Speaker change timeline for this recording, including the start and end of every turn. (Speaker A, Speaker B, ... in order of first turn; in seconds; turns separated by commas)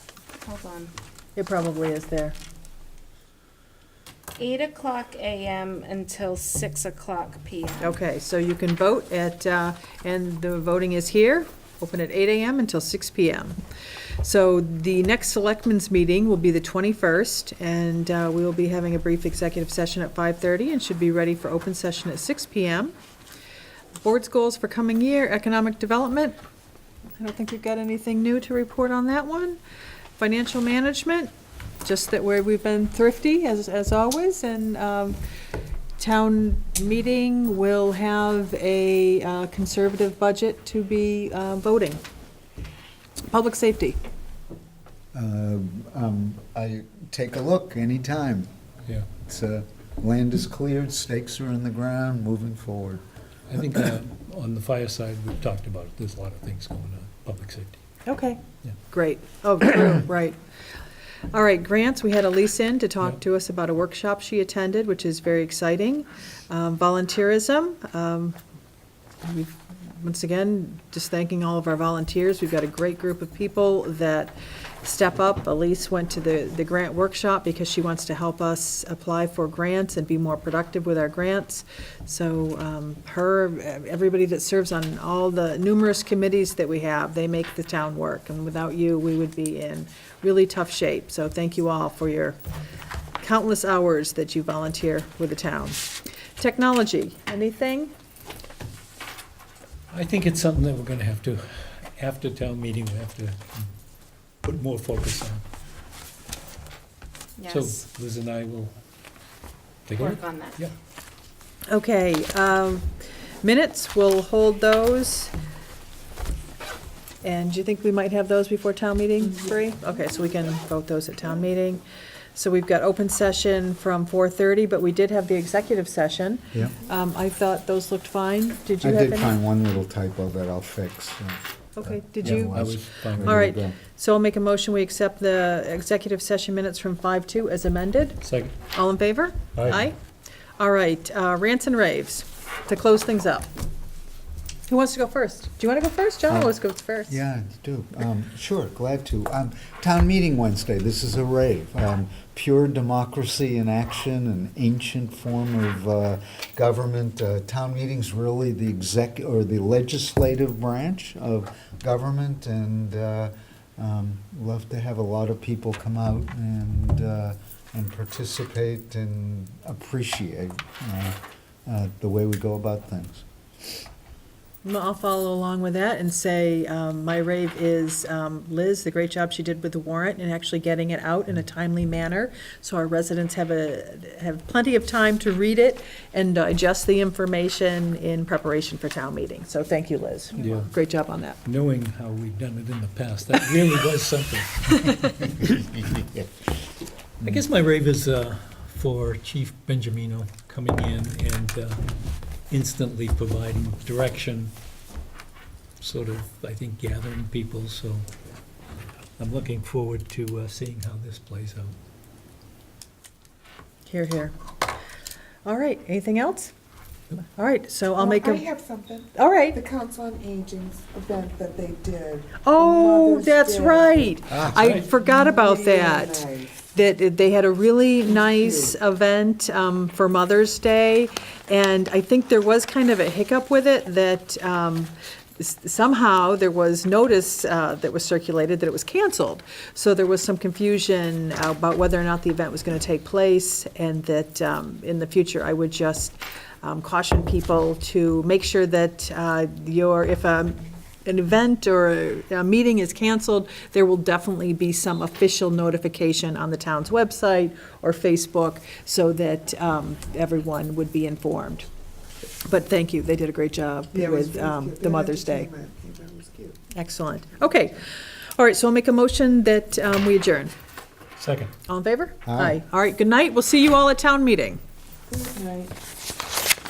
Speaker A: 0.3-0.9, Speaker B: 1.4-2.4, Speaker A: 4.4-8.0, Speaker B: 7.8-13.6, Speaker B: 14.2-22.9, Speaker B: 24.0-26.4, Speaker B: 27.2-29.6, Speaker B: 30.2-31.3, Speaker B: 31.8-35.2, Speaker B: 36.0-42.0, Speaker B: 43.3-44.0, Speaker C: 45.1-48.5, Speaker C: 49.2-53.0, Speaker D: 53.5-57.8, Speaker B: 58.1-60.4, Speaker B: 61.3-68.4, Speaker B: 69.2-92.4, Speaker B: 93.2-95.8, Speaker B: 96.4-97.9, Speaker D: 99.9-103.7, Speaker D: 104.4-105.4, Speaker A: 107.4-107.8, Speaker D: 107.5-108.7, Speaker D: 109.9-110.7, Speaker A: 110.0-110.6, Speaker B: 111.7-112.9, Speaker B: 113.4-115.3, Speaker B: 117.2-121.8, Speaker B: 122.3-129.4, Speaker C: 128.8-133.8, Speaker B: 131.8-132.6, Speaker D: 132.2-133.5, Speaker B: 133.2-140.0, Speaker D: 138.2-138.6, Speaker D: 139.6-139.8, Speaker B: 140.6-143.5, Speaker B: 144.7-147.2, Speaker C: 146.3-173.2, Speaker B: 174.6-191.4, Speaker D: 190.4-190.7, Speaker D: 191.4-195.2, Speaker C: 195.3-196.3, Speaker D: 197.2-201.8, Speaker D: 202.5-204.5, Speaker D: 205.8-208.1, Speaker D: 209.2-211.8, Speaker B: 213.9-214.3, Speaker B: 215.4-216.5, Speaker B: 217.2-218.5, Speaker E: 218.0-224.1, Speaker B: 219.1-219.6, Speaker B: 222.4-261.7, Speaker C: 224.3-224.7, Speaker D: 224.4-224.9, Speaker E: 225.0-226.5, Speaker B: 262.4-265.5, Speaker E: 263.9-266.6, Speaker B: 266.7-267.8, Speaker B: 268.4-270.5, Speaker D: 271.2-271.5, Speaker B: 271.7-274.6, Speaker C: 272.3-272.6, Speaker E: 275.1-275.7